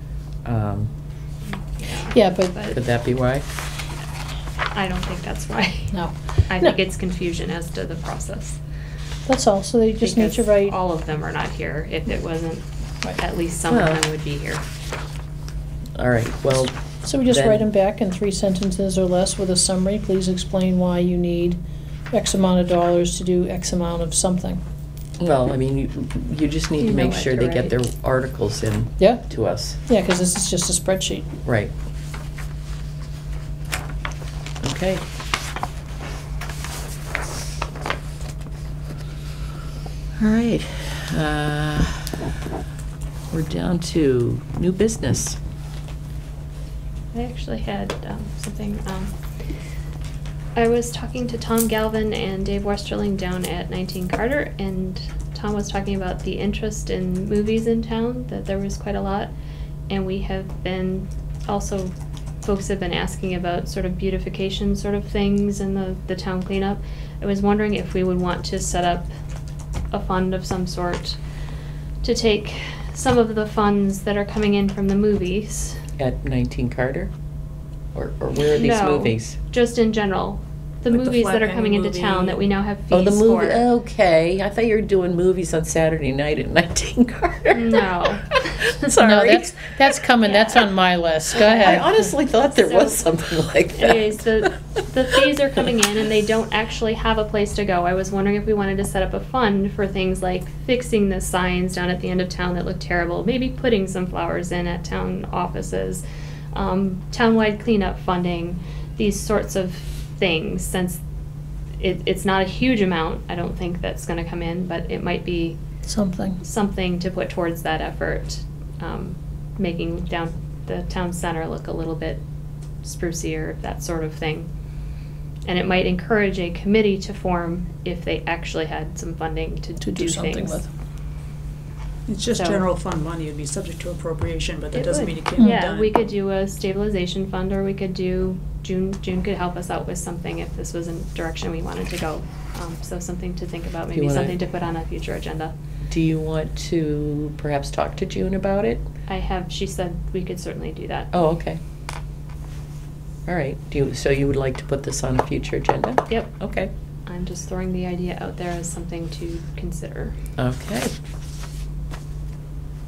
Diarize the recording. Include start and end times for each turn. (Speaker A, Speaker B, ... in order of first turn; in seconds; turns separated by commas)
Speaker A: 0.4-0.9, Speaker B: 1.8-2.8, Speaker C: 2.1-2.6, Speaker A: 2.7-3.5, Speaker B: 4.7-6.0, Speaker C: 5.9-6.7, Speaker B: 6.5-8.6, Speaker C: 9.2-10.7, Speaker B: 10.0-12.6, Speaker B: 13.2-14.6, Speaker A: 13.7-14.0, Speaker A: 15.9-17.7, Speaker C: 17.0-24.6, Speaker A: 25.2-29.8, Speaker B: 26.8-27.7, Speaker C: 29.0-29.3, Speaker C: 29.9-31.3, Speaker A: 31.4-31.7, Speaker A: 34.6-35.0, Speaker A: 40.2-42.2, Speaker A: 43.3-45.4, Speaker B: 47.1-49.1, Speaker B: 50.5-59.3, Speaker B: 59.9-61.9, Speaker B: 62.4-69.1, Speaker B: 69.9-71.2, Speaker B: 72.0-75.8, Speaker A: 76.0-77.1, Speaker A: 77.9-79.4, Speaker B: 78.5-83.6, Speaker D: 80.9-82.5, Speaker A: 82.9-89.7, Speaker B: 87.5-88.6, Speaker C: 89.0-92.1, Speaker B: 90.2-90.7, Speaker B: 91.3-91.8, Speaker A: 91.4-94.5, Speaker B: 92.6-93.0, Speaker B: 93.8-111.0, Speaker B: 111.8-115.6, Speaker C: 115.8-116.4, Speaker B: 116.4-122.2, Speaker B: 122.8-124.5, Speaker B: 125.5-130.6, Speaker C: 129.8-130.7, Speaker D: 132.1-136.0, Speaker B: 132.3-132.6, Speaker B: 134.7-145.5, Speaker A: 143.9-144.3, Speaker A: 145.9-148.8, Speaker B: 149.1-151.1, Speaker A: 151.1-151.6, Speaker A: 153.2-156.7, Speaker B: 156.1-156.4, Speaker B: 157.1-160.2, Speaker A: 160.4-160.9